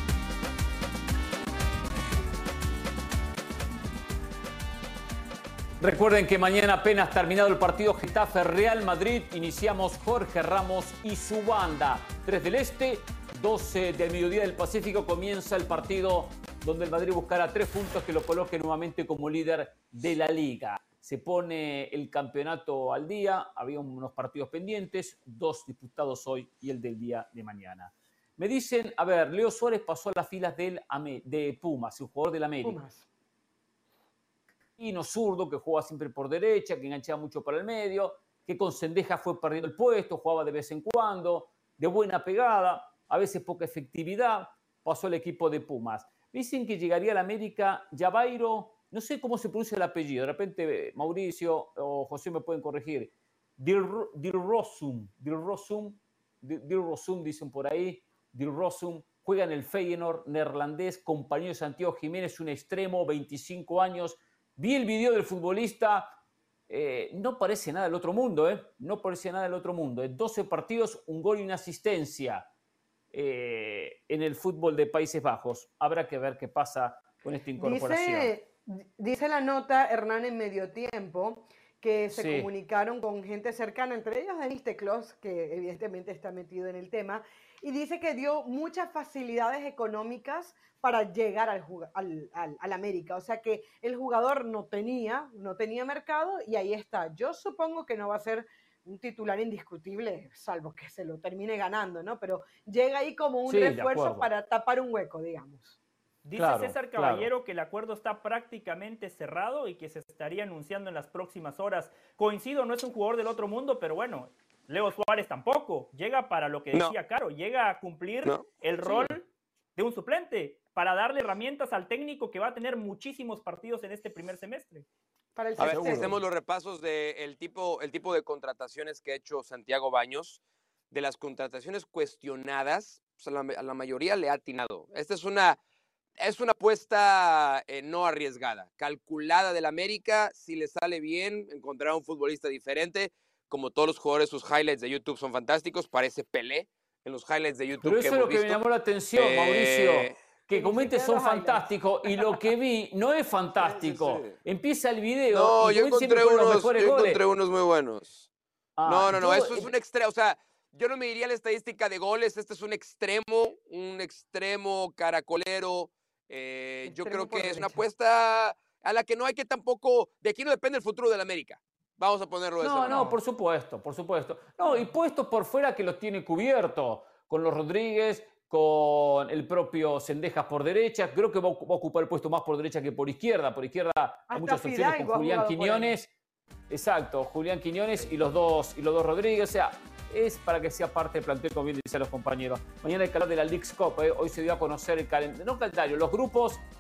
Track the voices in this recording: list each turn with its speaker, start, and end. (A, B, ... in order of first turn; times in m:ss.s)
0:05.8-0:32.8 A
0:32.6-0:33.1 B
0:34.8-1:06.1 A
1:06.7-1:12.5 A
1:13.1-1:18.3 A
1:17.6-1:45.8 B
1:22.1-1:22.5 A
1:43.5-1:44.3 A
1:46.2-1:59.2 C
1:46.4-1:47.3 A
1:59.8-2:04.9 C
2:05.4-2:06.2 B
2:05.6-2:15.6 D
2:05.7-2:06.2 A
2:16.2-2:28.6 D
2:27.8-2:37.2 A
2:29.2-2:30.2 D
2:30.5-2:31.7 B
2:33.6-2:34.4 D
2:35.3-2:38.3 D
2:38.8-2:39.7 A
2:38.8-2:53.2 D
2:46.9-2:47.8 B
2:52.6-3:06.1 A
3:04.3-3:06.0 B
3:06.7-3:16.6 A